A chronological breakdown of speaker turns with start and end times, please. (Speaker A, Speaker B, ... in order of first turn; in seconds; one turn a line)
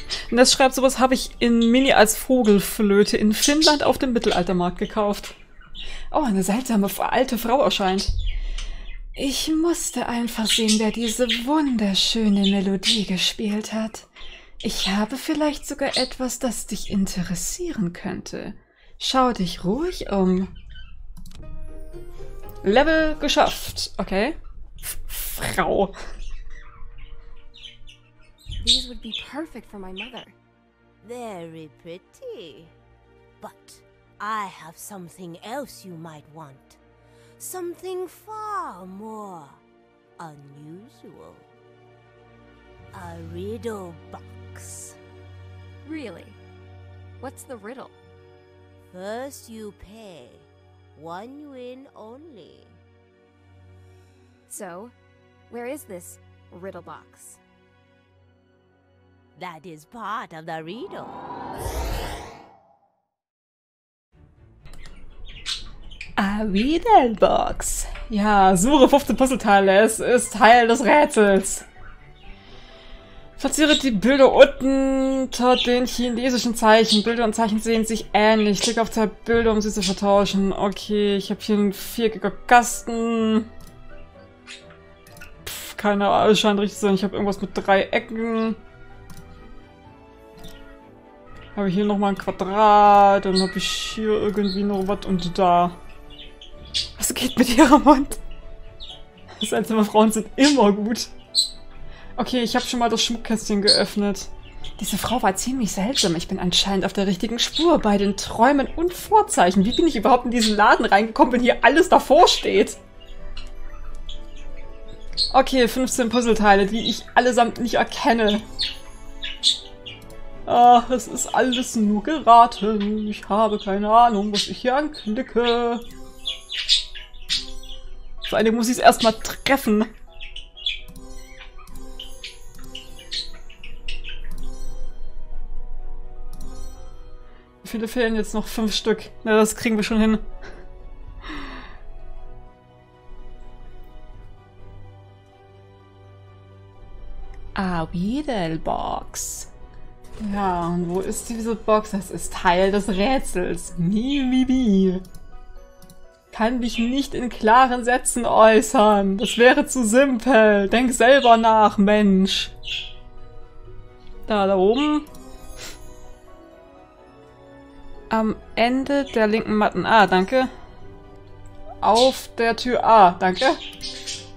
Speaker A: 0.3-5.4
Speaker A: 6.1-8.1
Speaker A: 9.2-14.1
Speaker A: 14.6-20.5
Speaker A: 22.6-25.9
Speaker B: 28.6-30.3
Speaker C: 31.0-32.7
Speaker C: 33.4-36.8
Speaker C: 37.4-39.6
Speaker C: 40.2-41.5
Speaker C: 42.9-45.0
Speaker B: 45.9-46.4
Speaker B: 47.2-48.0
Speaker C: 48.9-52.8
Speaker B: 54.5-54.9
Speaker B: 55.5-57.4
Speaker C: 59.4-61.3
Speaker A: 66.2-71.7
Speaker A: 73.4-83.5
Speaker A: 85.4-88.6
Speaker A: 91.5-95.8
Speaker A: 97.0-98.2
Speaker A: 99.4-101.1
Speaker A: 102.2-112.8
Speaker A: 115.3-118.4
Speaker A: 120.5-125.8
Speaker A: 128.3-129.9
Speaker A: 137.6-140.3
Speaker A: 147.6-149.5
Speaker A: 150.2-155.0
Speaker A: 156.3-162.5
Speaker A: 164.3-165.1
Speaker A: 168.1-170.5
Speaker A: 171.8-173.6